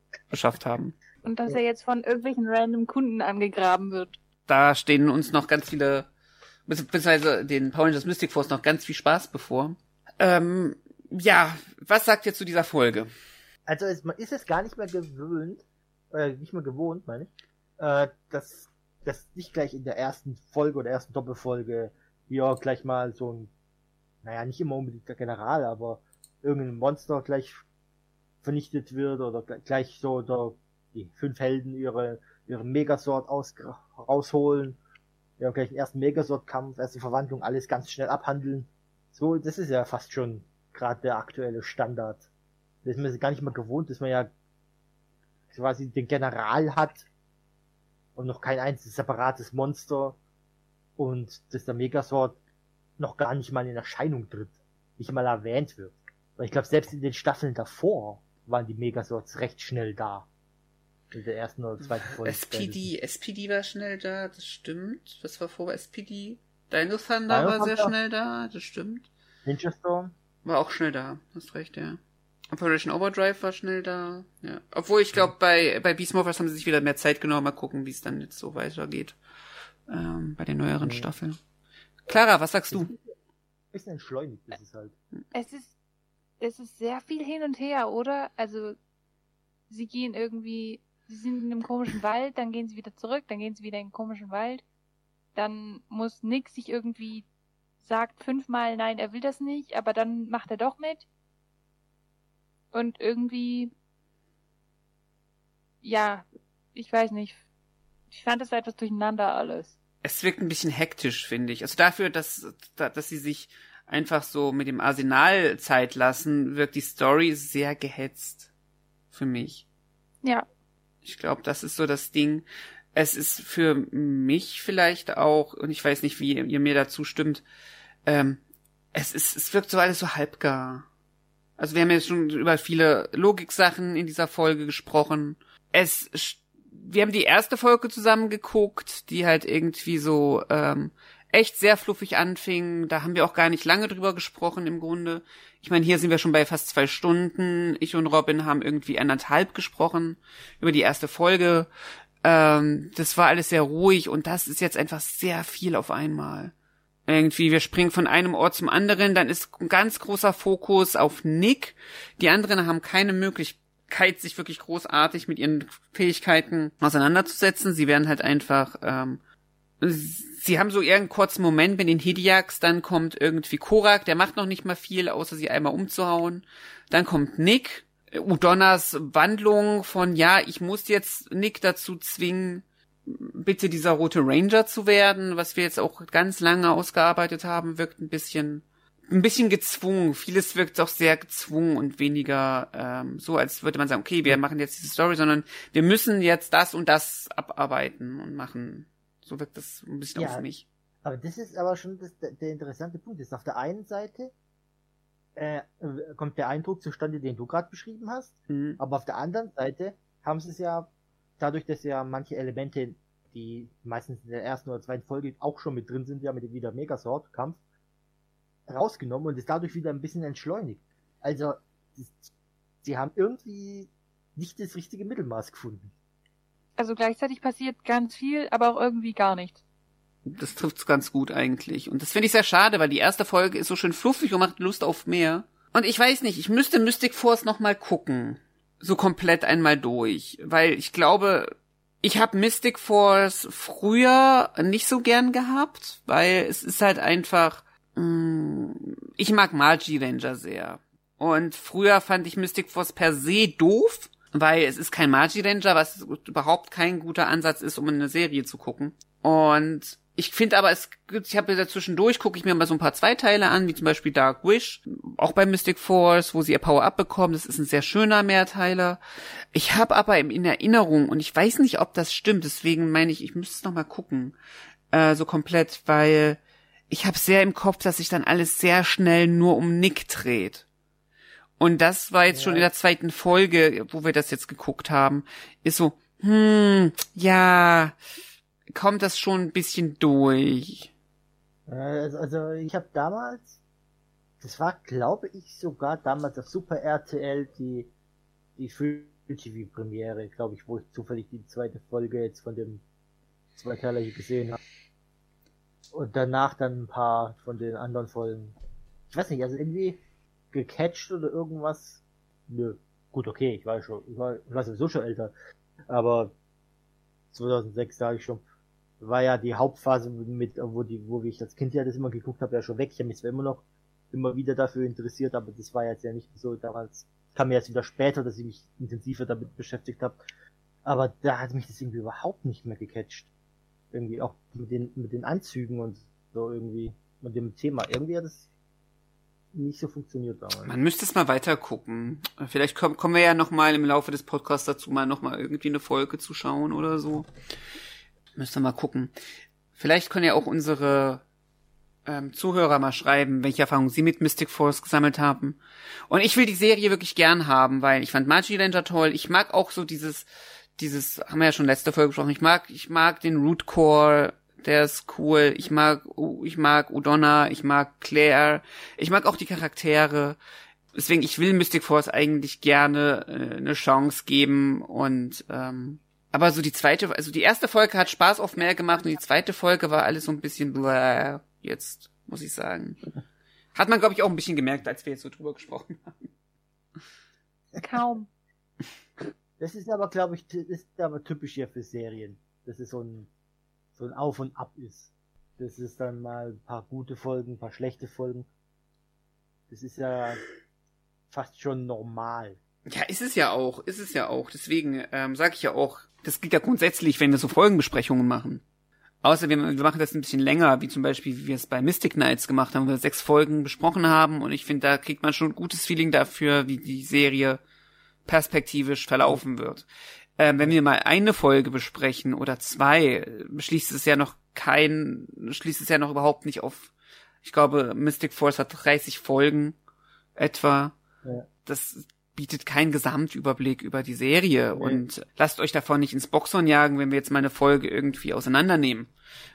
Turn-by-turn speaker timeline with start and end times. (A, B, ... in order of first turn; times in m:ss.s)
0:00.3-0:00.9 A
0:01.2-0:04.2 B
0:04.5-0:06.1 A
0:06.7-0:13.1 A
0:13.7-0:23.5 C
0:24.2-0:27.6 C
0:28.4-0:34.8 C
0:35.4-0:42.3 C
0:42.8-0:44.3 C
0:45.5-0:47.1 C
0:48.2-0:50.2 C
0:51.0-0:52.4 C
0:53.0-1:00.3 C
1:01.1-1:02.9 C
1:02.1-1:09.1 A
1:07.3-1:07.9 C
1:09.4-1:10.1 C
1:10.4-1:12.0 A
1:12.5-1:19.2 A
1:19.9-1:21.4 A
1:20.8-1:21.1 C
1:22.1-1:22.9 A
1:22.7-1:23.0 C
1:23.7-1:24.9 C
1:25.3-1:25.7 B
1:26.4-1:28.8 B
1:29.7-1:34.6 B
1:35.3-1:37.2 B
1:37.8-1:41.0 B
1:42.7-1:43.7 B
1:45.8-1:47.4 B
1:48.1-1:49.8 B
1:50.0-1:58.5 A
1:59.1-1:59.6 A
2:01.0-2:07.4 A
2:08.0-2:08.4 A
2:08.9-2:10.8 A
2:11.6-2:31.7 A
2:32.2-2:36.5 A
2:37.1-2:49.2 A
2:49.8-3:20.6 A
3:20.2-3:20.4 C
3:21.0-3:24.3 C
3:25.4-3:37.6 C
3:28.5-3:28.8 A
3:38.7-3:42.3 C
3:42.8-3:45.9 C
3:46.8-3:49.6 B
3:50.2-4:29.0 A
4:29.5-4:34.3 A
4:34.9-4:40.6 A
4:41.6-4:48.0 A
4:42.3-4:42.6 C
4:48.7-4:50.9 A
4:51.7-4:53.6 C
4:54.4-4:57.9 C
4:58.6-5:02.8 C
5:03.6-5:04.6 C
5:05.9-5:08.5 C
5:09.1-5:10.0 C
5:10.5-5:15.3 C
5:15.9-5:16.3 C
5:17.3-5:18.4 C
5:19.0-5:30.2 C
5:30.8-5:33.3 C
5:33.9-5:38.5 C
5:39.5-5:40.8 C
5:40.6-5:47.3 A
5:48.4-5:49.1 A
5:49.8-5:51.2 A
5:52.0-6:00.3 A
6:00.8-6:10.4 A
6:10.9-6:23.0 A
6:23.7-6:26.3 A
6:27.8-6:28.3 B
6:29.6-6:33.3 C
6:34.0-6:38.5 C
6:39.7-6:40.4 C
6:41.3-6:42.6 C
6:42.8-6:48.6 A
6:49.2-6:57.6 A
6:58.2-6:59.8 A
7:00.4-7:06.9 A
7:07.4-7:09.7 A
7:10.4-7:10.9 A
7:11.6-7:19.1 A